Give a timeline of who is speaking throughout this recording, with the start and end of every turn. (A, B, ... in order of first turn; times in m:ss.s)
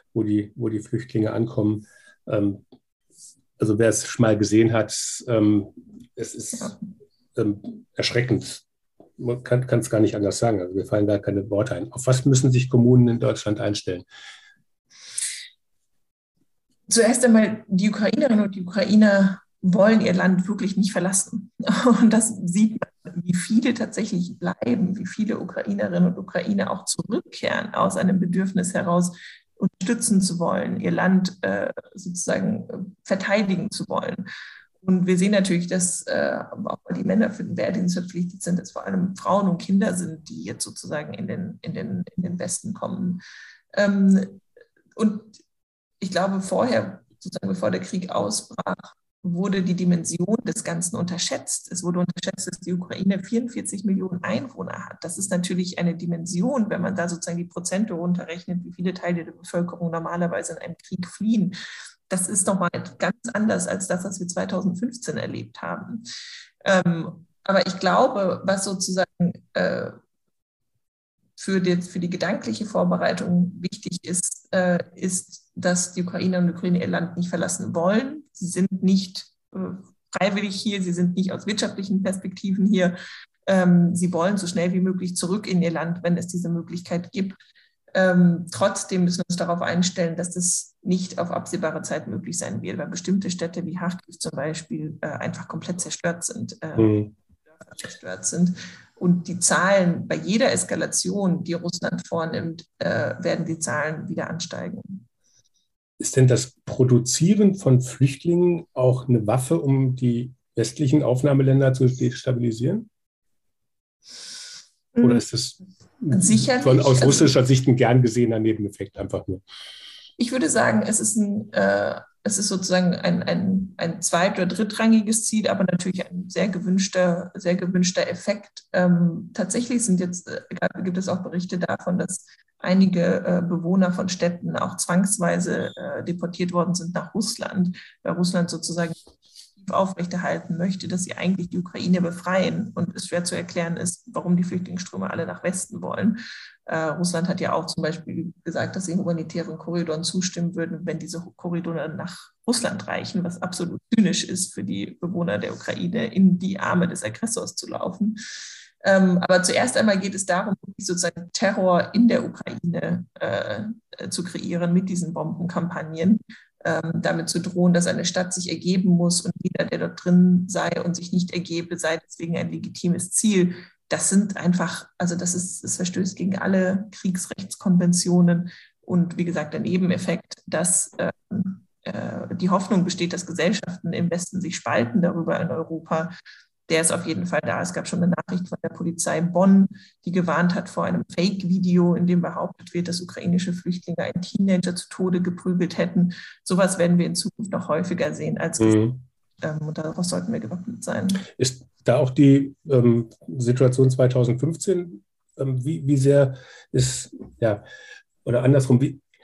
0:00.1-0:02.6 A
0:03.6-0:06.8 A
0:07.4-0:08.6 A
0:09.2-0:14.0 A
0:16.9-0:34.3 B
0:34.8-0:43.2 B
0:43.7-0:44.4 B
0:45.0-0:45.4 B
0:46.0-1:01.6 B
1:02.1-1:06.0 B
1:06.6-1:10.0 B
1:11.4-1:23.0 B
1:23.5-1:27.4 B
1:27.9-1:37.0 B
1:36.8-1:37.1 A
1:37.6-1:45.1 B
1:46.0-1:52.9 A
1:55.0-1:55.2 B
1:55.0-1:59.4 A
1:56.1-1:57.4 B
2:00.2-2:19.0 B
2:19.6-2:38.2 B
2:38.8-3:06.1 B
3:06.7-3:21.3 B
3:18.6-3:19.0 A
3:21.3-3:27.6 A
3:28.2-3:29.0 A